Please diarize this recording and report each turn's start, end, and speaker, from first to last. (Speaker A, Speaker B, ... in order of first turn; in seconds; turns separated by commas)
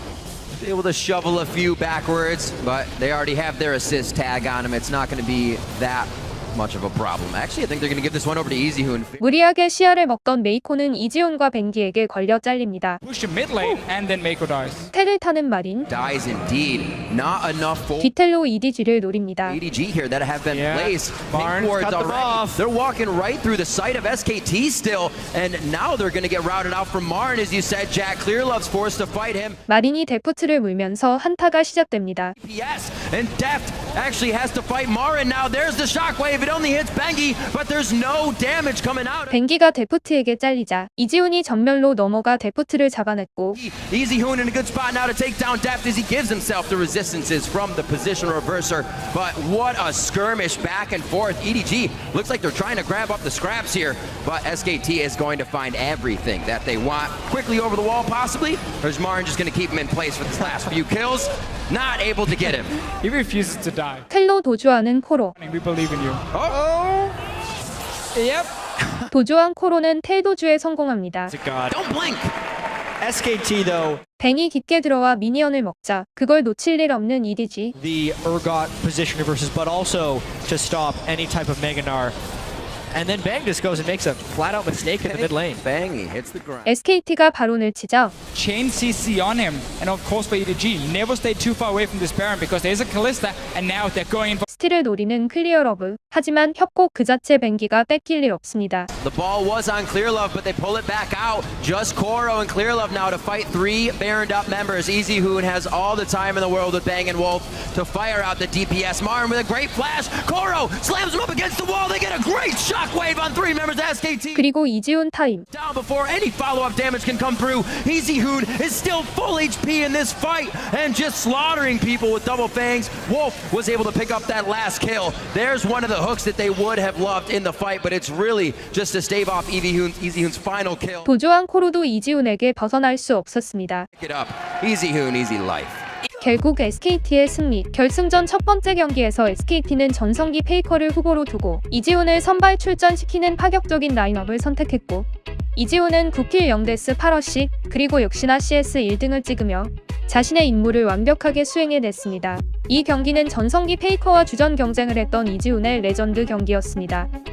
Speaker A: 0.6-9.2, Speaker B: 9.2-13.0, Speaker C: 13.0-14.9, Speaker B: 14.9-15.9, Speaker A: 15.9-18.1, Speaker B: 18.0-19.6, Speaker A: 19.4-29.6, Speaker D: 20.5-22.6, Speaker B: 29.7-32.3, Speaker A: 32.4-39.3, Speaker B: 39.3-43.6, Speaker A: 43.5-62.7, Speaker C: 63.0-64.0, Speaker B: 64.1-65.3, Speaker C: 65.3-66.2, Speaker A: 66.3-66.6, Speaker D: 66.5-67.1, Speaker C: 68.1-69.1, Speaker B: 69.1-71.3, Speaker D: 71.3-71.8, Speaker A: 71.7-72.3, Speaker D: 73.0-74.0, Speaker B: 74.2-77.7, Speaker D: 77.8-82.1, Speaker D: 82.9-85.6, Speaker A: 85.0-86.7, Speaker B: 86.7-88.1, Speaker C: 88.3-94.4, Speaker B: 94.5-98.9, Speaker A: 99.0-114.4, Speaker B: 114.3-115.5, Speaker A: 115.5-131.1, Speaker B: 131.1-133.9, Speaker A: 134.0-135.8, Speaker B: 136.2-157.1